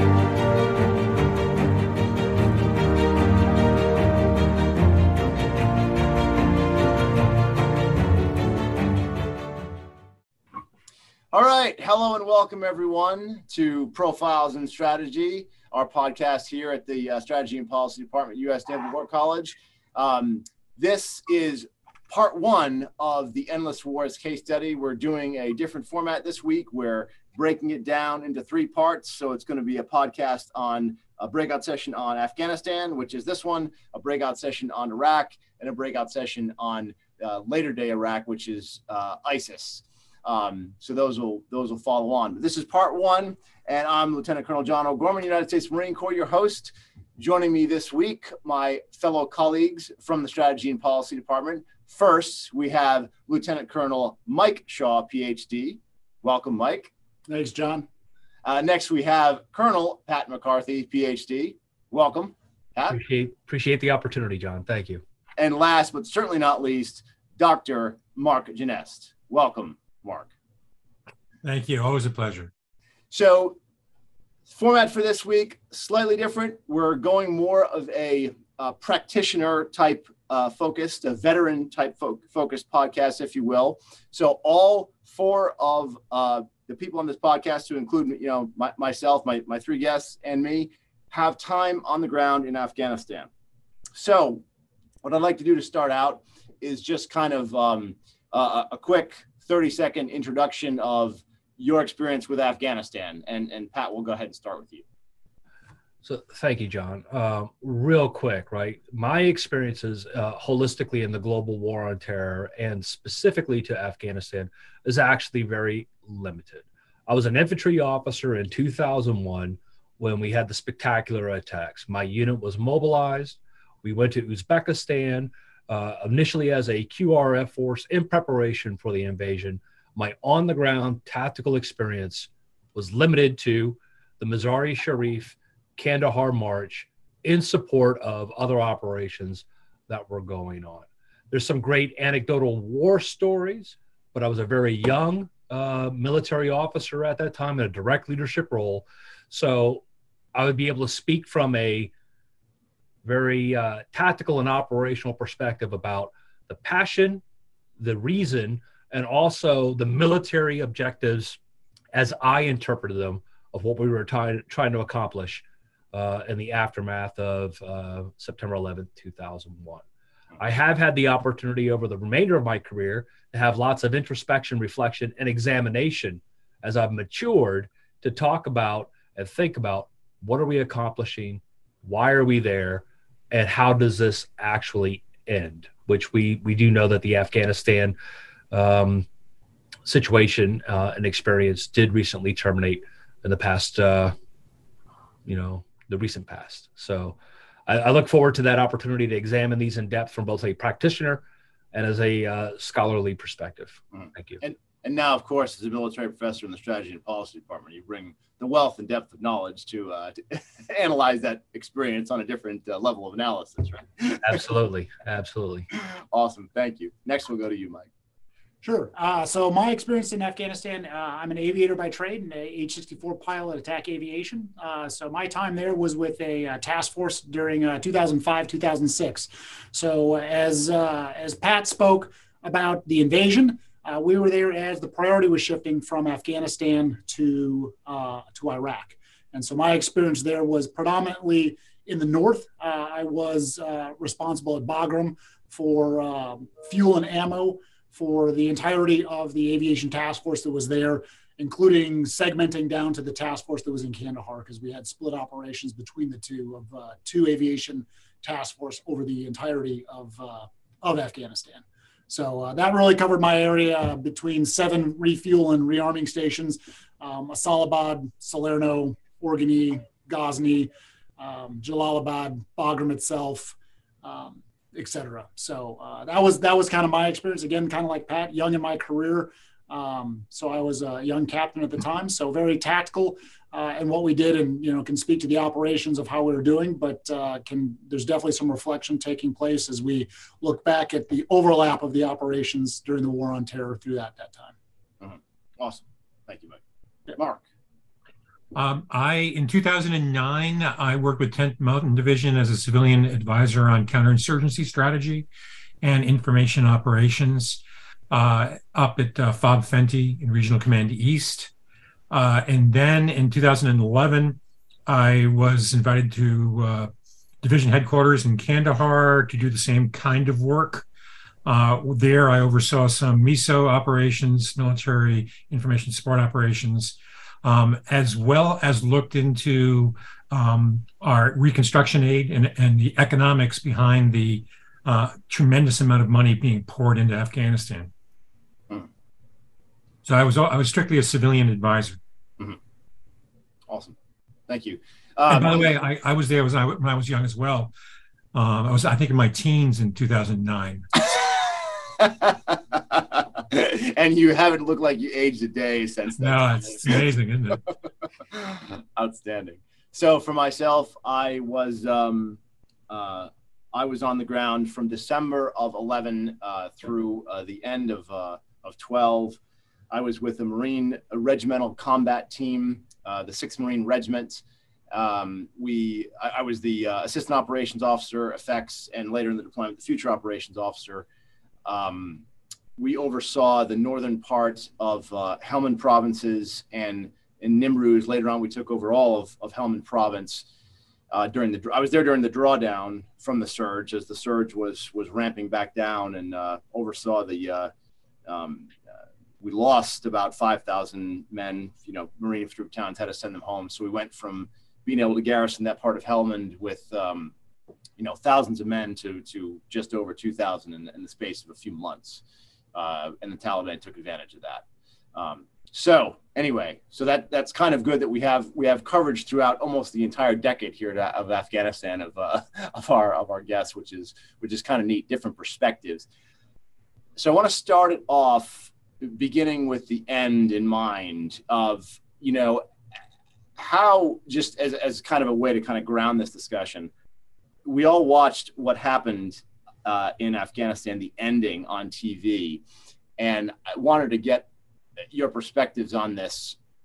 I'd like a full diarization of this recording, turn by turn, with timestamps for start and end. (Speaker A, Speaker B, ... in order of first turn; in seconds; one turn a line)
Speaker A: 11.3-56.9
Speaker B: 57.3-57.9
Speaker A: 58.5-63.0
Speaker C: 62.9-65.0
Speaker A: 65.4-70.3
Speaker D: 71.4-72.5
Speaker A: 73.1-73.6
Speaker A: 74.5-93.3
Speaker A: 94.0-94.4
Speaker A: 95.0-104.8
Speaker C: 106.0-149.8
Speaker C: 150.3-151.9
Speaker C: 153.0-157.2
Speaker C: 157.8-161.4
Speaker C: 161.9-169.8
Speaker C: 170.4-188.0
Speaker C: 188.5-189.1
Speaker C: 189.8-194.1
Speaker C: 195.3-204.4
Speaker A: 203.9-214.4
Speaker C: 214.2-215.7
Speaker A: 216.1-217.9
Speaker B: 218.6-294.5
Speaker A: 295.0-297.4
Speaker D: 298.6-305.3
Speaker D: 305.8-311.5
Speaker D: 312.1-316.9
Speaker D: 317.4-320.9
Speaker D: 321.4-337.9
Speaker D: 340.1-342.0
Speaker A: 343.7-343.9
Speaker A: 344.5-345.7
Speaker D: 345.3-347.7
Speaker D: 348.3-350.9
Speaker A: 352.0-357.0
Speaker D: 356.2-357.7
Speaker A: 358.3-369.4
Speaker A: 369.9-381.1
Speaker A: 381.7-382.2
Speaker A: 382.8-390.5
Speaker A: 391.1-397.7
Speaker A: 398.3-398.8
Speaker A: 399.4-407.3
Speaker A: 408.0-412.2
Speaker A: 412.8-414.6
Speaker A: 415.1-426.1
Speaker A: 427.2-432.6
Speaker A: 433.6-436.9
Speaker A: 437.6-442.6
Speaker A: 443.2-444.5
Speaker A: 445.1-446.6